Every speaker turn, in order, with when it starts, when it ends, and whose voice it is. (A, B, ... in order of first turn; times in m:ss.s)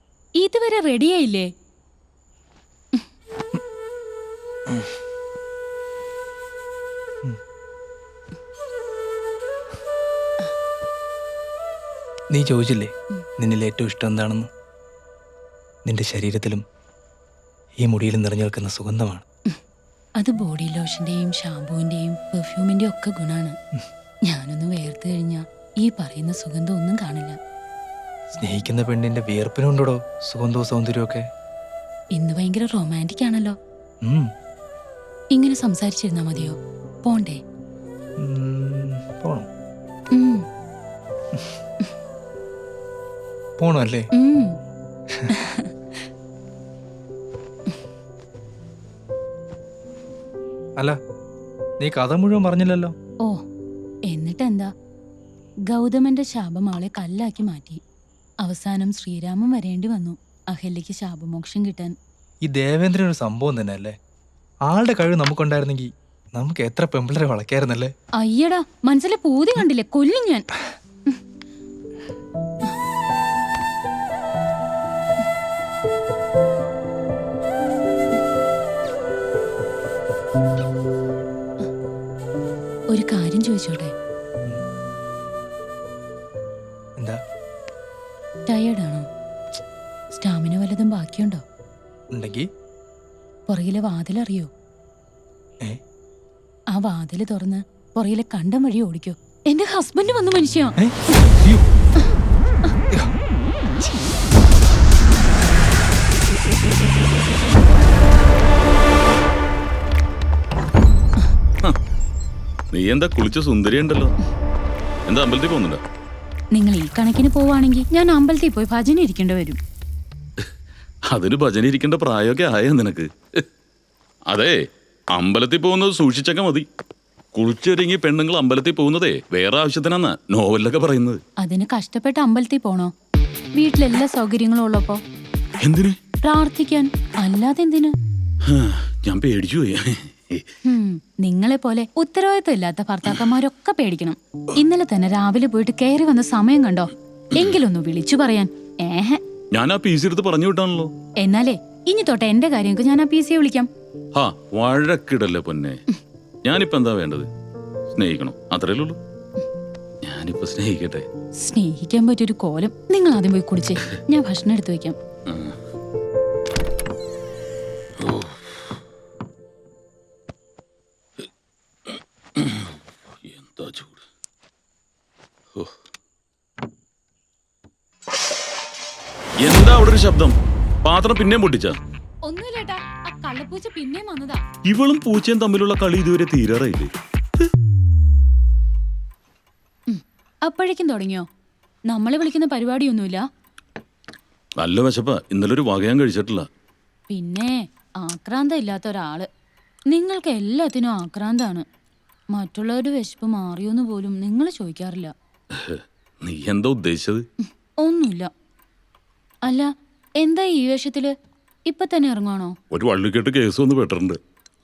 0:00.4-0:01.5 A
0:12.3-0:14.5 B
0:15.8-0:16.6 B
0:17.8-0:19.2 B
0:20.2-0:23.6 A
0:24.3-0:27.4 A
0:28.3-0:31.2 B
0:32.1-0:33.6 A
0:35.3-0:37.4 A
0:38.2-0:39.5 B
0:40.1-0:40.4 A
0:43.6-0:44.1 B
0:44.1-0:44.5 A
0:45.3-0:45.7 A
0:51.8-0:52.9 B
0:54.1-0:54.7 A
0:55.7-0:57.8 A
0:58.4-1:01.9 A
1:02.4-1:03.9 B
1:04.6-1:07.9 B
1:08.2-1:10.4 A
1:22.9-1:23.9 A
1:28.5-1:29.1 A
1:30.1-1:31.4 A
1:32.1-1:32.4 B
1:33.5-1:34.5 A
1:36.7-1:40.8 A
1:40.8-1:41.6 B
1:52.7-1:54.1 C
1:55.1-1:55.8 C
1:56.5-1:59.6 A
2:01.1-2:03.4 C
2:04.3-2:04.6 C
2:05.2-2:06.6 C
2:07.3-2:11.2 C
2:11.4-2:12.9 A
2:13.5-2:15.0 A
2:15.6-2:16.0 C
2:16.2-2:17.9 A
2:18.4-2:20.4 C
2:20.6-2:29.2 A
2:29.5-2:30.9 C
2:31.2-2:33.7 A
2:34.1-2:35.8 C
2:36.4-2:37.3 C
2:37.9-2:39.0 C
2:40.0-2:41.1 C
2:41.4-2:44.9 A
2:45.3-2:45.6 C
2:48.0-2:48.6 C
2:51.9-2:54.0 C
2:59.4-3:01.8 C
3:02.2-3:04.4 A
3:04.7-3:06.9 C
3:09.9-3:11.2 A
3:11.9-3:13.2 A
3:14.6-3:16.4 C
3:17.1-3:19.3 A
3:19.9-3:21.6 A
3:22.3-3:25.1 A
3:25.5-3:27.2 C
3:27.8-3:28.3 A
3:29.4-3:31.1 A
3:31.7-3:32.6 A
3:32.7-3:34.2 C